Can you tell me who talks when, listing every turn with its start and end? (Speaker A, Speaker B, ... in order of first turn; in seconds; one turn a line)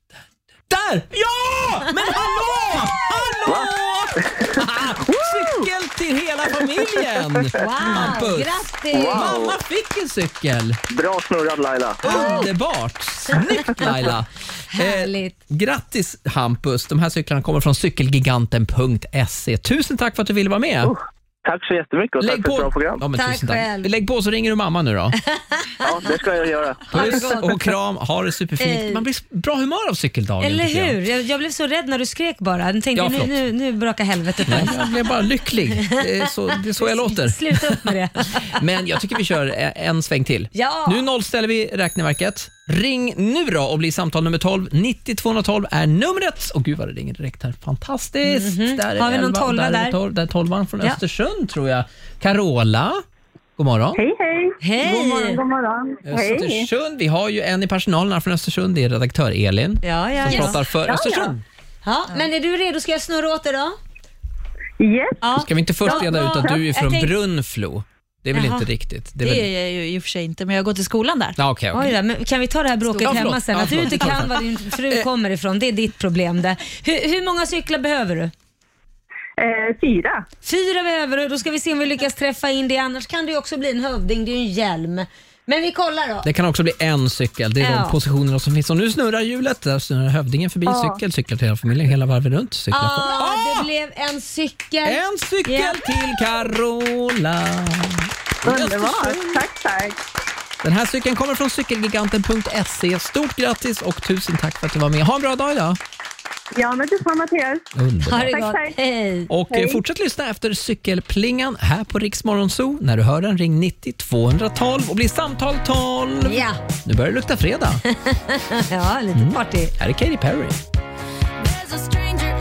Speaker A: 0.7-10.8
Speaker B: 7.5-9.3
Speaker C: 8.9-9.5
Speaker C: 10.9-12.3
Speaker B: 12.0-12.5
Speaker A: 12.0-20.9
Speaker B: 13.8-14.1
Speaker B: 14.7-15.3
Speaker C: 21.4-23.0
Speaker A: 22.2-25.2
Speaker B: 23.1-23.9
Speaker B: 25.3-25.8
Speaker C: 25.8-27.1
Speaker B: 26.9-27.7
Speaker A: 26.9-31.0
Speaker B: 28.6-29.0
Speaker B: 30.4-34.9
Speaker A: 32.9-33.4
Speaker A: 34.4-53.0
Speaker B: 36.5-38.6
Speaker B: 40.5-41.0
Speaker B: 48.2-50.0
Speaker A: 53.6-54.0
Speaker D: 54.0-56.7
Speaker B: 54.6-55.4
Speaker A: 56.0-61.4
Speaker B: 59.8-60.6
Speaker D: 60.9-61.3
Speaker B: 61.8-63.8
Speaker D: 64.8-65.2
Speaker B: 65.2-67.1
Speaker A: 65.3-69.5
Speaker B: 68.3-68.7
Speaker E: 69.2-71.4
Speaker A: 71.4-72.0
Speaker B: 71.7-78.3
Speaker A: 73.0-75.0
Speaker D: 79.4-80.2
Speaker B: 80.4-86.3
Speaker A: 86.2-93.7
Speaker B: 87.6-88.0
Speaker D: 90.7-91.0
Speaker B: 92.7-95.8
Speaker A: 94.8-99.4
Speaker D: 98.4-99.9
Speaker A: 100.6-105.8
Speaker D: 106.5-107.7
Speaker A: 107.7-108.4
Speaker B: 108.0-109.3
Speaker D: 108.3-108.7
Speaker A: 109.3-117.8
Speaker D: 109.5-109.8
Speaker B: 116.2-116.6
Speaker B: 117.9-119.7
Speaker A: 119.1-120.6